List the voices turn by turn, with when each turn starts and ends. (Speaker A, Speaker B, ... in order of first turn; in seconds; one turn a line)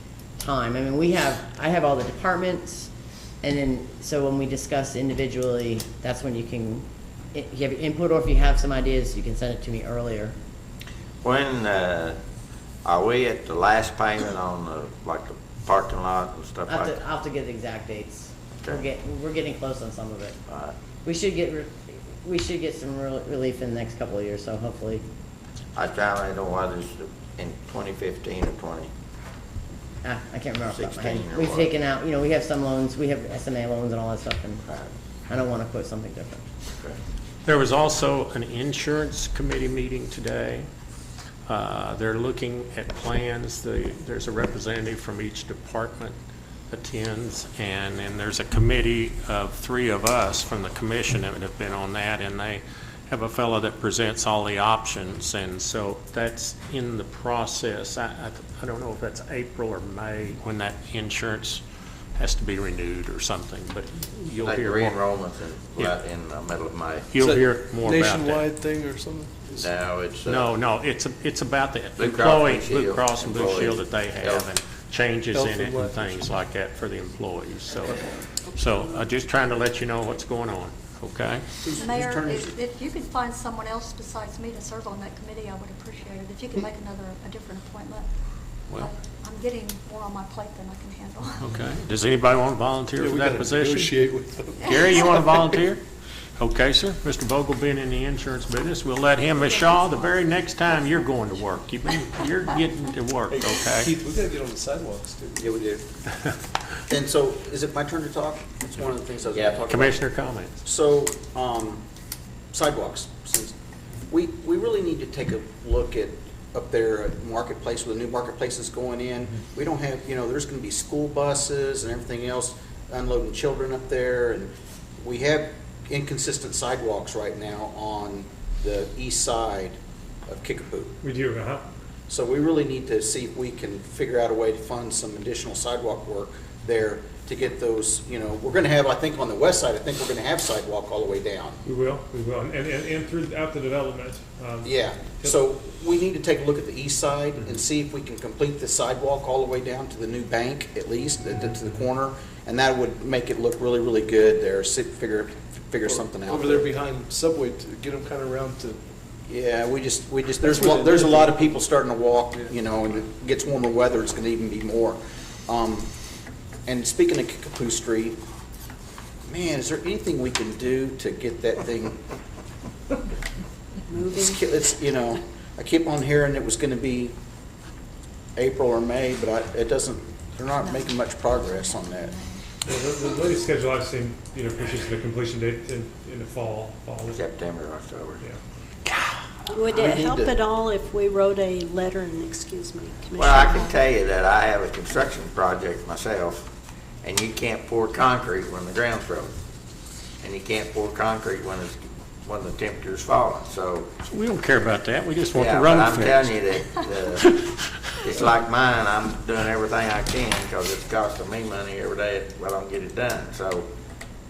Speaker A: 0.4-2.9
Speaker A: 3.4-10.3
Speaker B: 11.2-12.2
Speaker B: 12.8-17.0
Speaker A: 16.7-20.4
Speaker B: 20.5-20.7
Speaker A: 21.0-25.0
Speaker B: 25.8-28.9
Speaker A: 30.0-34.6
Speaker B: 30.7-31.7
Speaker B: 34.6-34.9
Speaker A: 35.3-36.4
Speaker C: 37.4-40.7
Speaker C: 41.5-46.1
Speaker C: 46.7-61.6
Speaker C: 62.1-65.1
Speaker B: 64.4-67.1
Speaker C: 67.1-68.5
Speaker D: 67.2-69.7
Speaker B: 69.6-70.5
Speaker C: 70.2-78.0
Speaker B: 72.0-74.5
Speaker D: 75.3-76.3
Speaker C: 78.5-81.4
Speaker E: 81.6-82.5
Speaker F: 81.7-88.1
Speaker F: 88.7-91.5
Speaker C: 91.4-94.0
Speaker D: 93.0-95.5
Speaker C: 94.6-95.8
Speaker C: 96.4-103.9
Speaker D: 103.7-105.5
Speaker E: 105.4-105.8
Speaker E: 106.9-110.0
Speaker B: 109.3-109.6
Speaker C: 109.7-110.5
Speaker E: 110.6-111.8
Speaker E: 112.5-113.5
Speaker E: 114.1-129.8
Speaker E: 130.3-130.9
Speaker G: 131.0-131.6
Speaker E: 132.1-141.6
Speaker G: 141.7-145.4
Speaker E: 144.6-156.7
Speaker D: 155.8-158.8
Speaker E: 159.3-165.9
Speaker D: 160.4-161.5
Speaker E: 166.7-168.2
Speaker E: 169.3-172.0
Speaker H: 173.9-174.4
Speaker E: 174.1-177.1
Speaker E: 178.3-182.2
Speaker G: 182.6-187.2
Speaker B: 187.1-188.2
Speaker H: 189.5-193.8
Speaker E: 189.7-190.3
Speaker B: 193.2-196.5
Speaker B: 197.0-199.3
Speaker B: 200.2-203.9
Speaker C: 204.0-206.7
Speaker B: 205.3-207.4
Speaker C: 207.3-208.2
Speaker B: 208.0-213.7